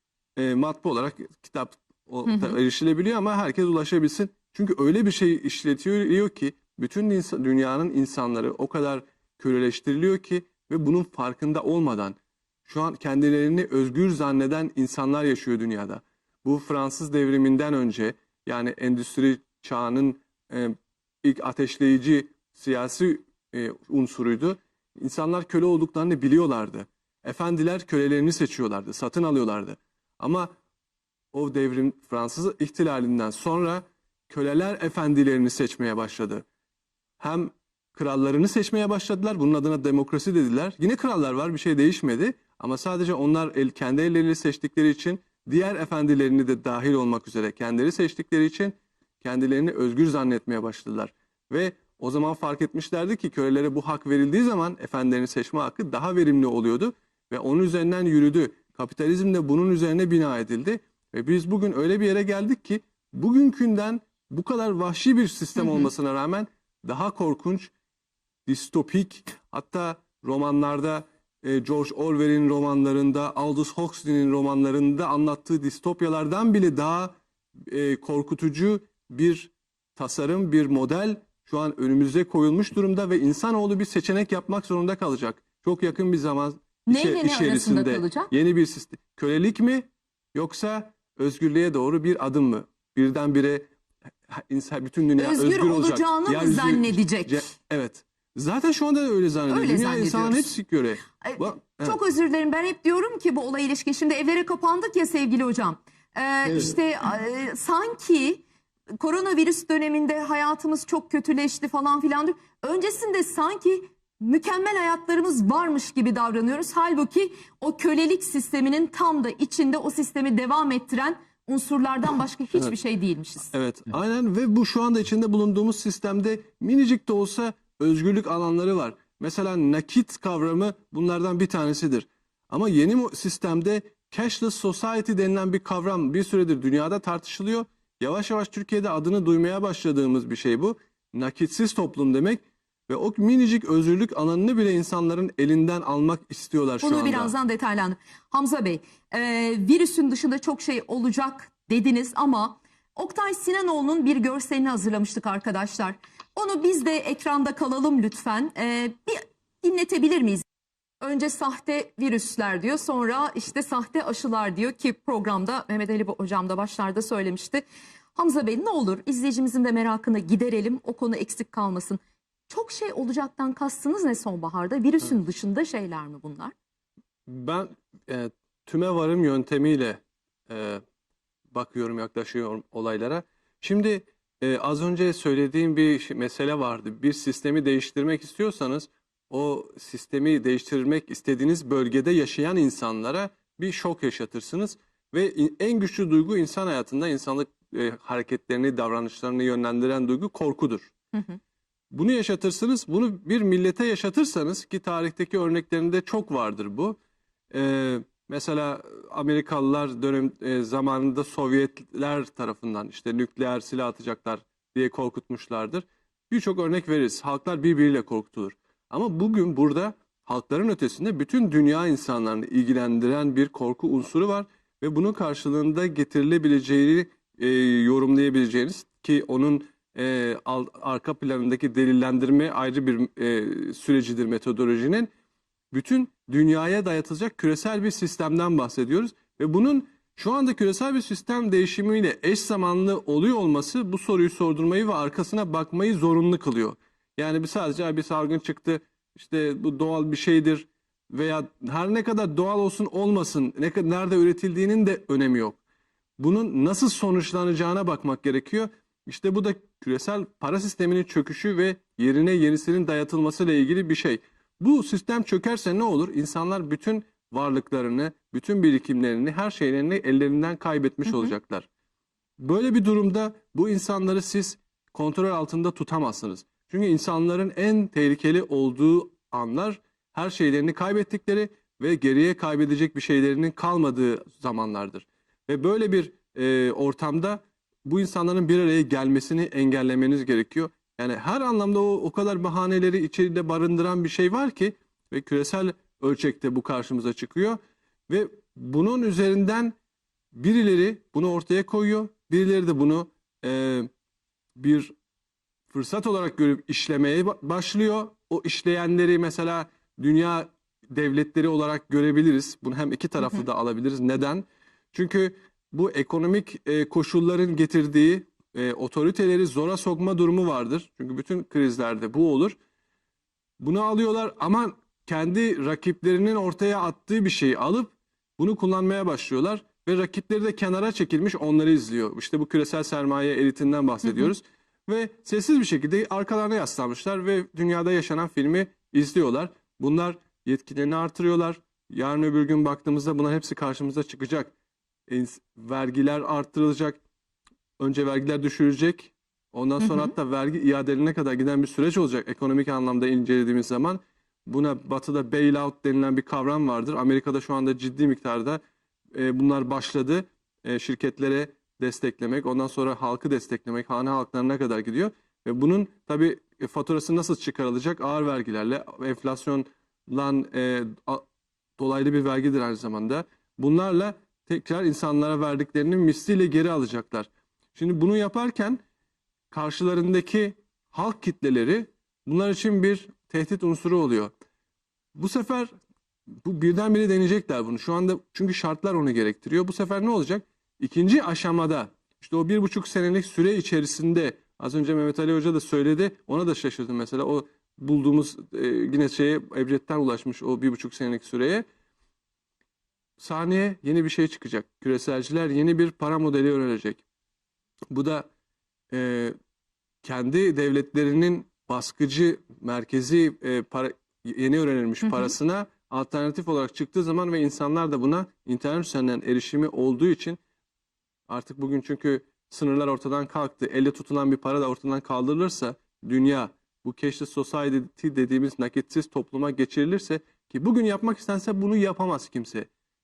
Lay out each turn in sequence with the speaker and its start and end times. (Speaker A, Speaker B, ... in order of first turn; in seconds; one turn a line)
Speaker A: 0.4-30.5
Speaker B: 2.3-2.6
Speaker A: 31.3-36.5
Speaker A: 37.2-67.7
Speaker B: 65.6-65.9
Speaker A: 68.5-77.2
Speaker A: 77.7-93.7
Speaker B: 86.9-88.3
Speaker A: 94.3-102.0
Speaker B: 95.2-97.4
Speaker B: 99.5-100.5
Speaker B: 101.2-108.4
Speaker A: 106.5-106.7
Speaker B: 109.0-123.5
Speaker A: 123.5-147.3
Speaker B: 146.8-160.4
Speaker B: 161.0-167.6
Speaker B: 168.2-176.5
Speaker A: 177.3-180.8
Speaker A: 181.5-200.9
Speaker A: 201.9-207.0
Speaker A: 207.5-235.1
Speaker A: 235.7-255.6
Speaker A: 256.2-271.7
Speaker B: 271.1-271.3
Speaker A: 272.4-299.8
Speaker A: 300.3-303.9
Speaker A: 304.6-304.9
Speaker A: 305.7-322.6
Speaker A: 323.6-344.5
Speaker B: 334.1-334.3
Speaker A: 345.1-347.0
Speaker A: 347.8-358.6
Speaker B: 349.8-350.1
Speaker A: 359.1-371.2
Speaker A: 371.8-378.8
Speaker A: 379.5-384.3
Speaker A: 385.2-385.7
Speaker A: 386.4-401.6
Speaker A: 403.2-407.0
Speaker A: 407.9-408.3
Speaker A: 408.9-409.3
Speaker A: 410.0-420.4
Speaker A: 421.3-432.7